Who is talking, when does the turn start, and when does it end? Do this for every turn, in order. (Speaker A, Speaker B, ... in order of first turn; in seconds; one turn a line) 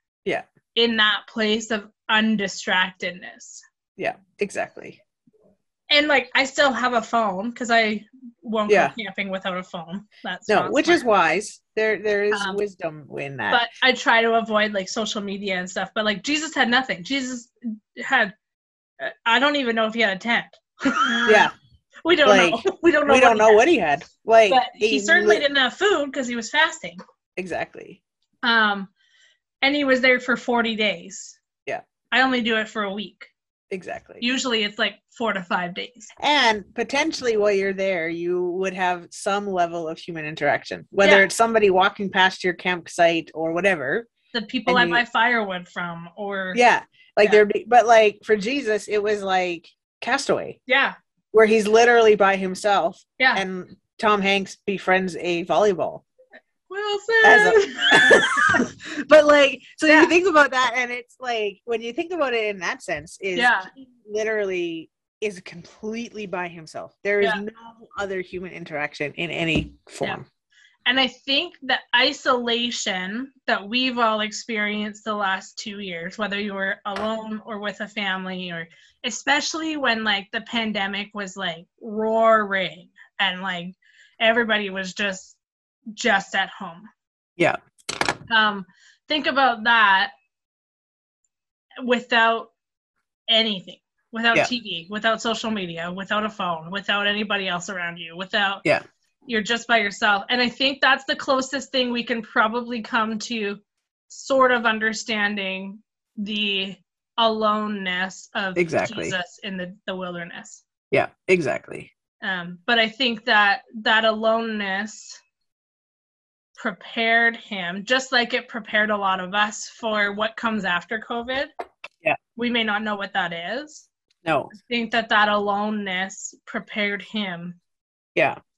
Speaker A: 0.7-3.6
Speaker B: 4.0-5.0
Speaker A: 5.9-11.1
Speaker B: 8.7-8.9
Speaker B: 10.5-13.6
Speaker A: 12.3-12.6
Speaker A: 13.5-18.3
Speaker A: 19.0-21.5
Speaker B: 21.2-21.5
Speaker A: 22.0-23.7
Speaker B: 22.2-25.4
Speaker A: 24.5-27.0
Speaker B: 27.4-28.0
Speaker A: 28.4-28.9
Speaker A: 29.6-31.4
Speaker A: 32.1-33.3
Speaker B: 33.7-34.2
Speaker A: 34.2-36.1
Speaker B: 36.2-44.1
Speaker A: 41.0-41.3
Speaker A: 44.3-46.6
Speaker B: 44.6-45.0
Speaker B: 46.5-50.6
Speaker A: 50.7-51.0
Speaker B: 51.3-56.0
Speaker A: 56.7-58.7
Speaker B: 57.2-70.2
Speaker A: 59.9-60.1
Speaker A: 63.3-63.7
Speaker A: 70.8-85.4
Speaker A: 85.9-86.9
Speaker A: 88.3-90.1
Speaker A: 91.8-92.5
Speaker A: 93.3-98.6
Speaker A: 99.3-110.6
Speaker B: 108.5-109.2
Speaker B: 110.9-111.9
Speaker A: 112.2-115.2
Speaker A: 116.6-121.5
Speaker A: 122.3-123.9
Speaker B: 124.2-124.5
Speaker A: 124.5-127.6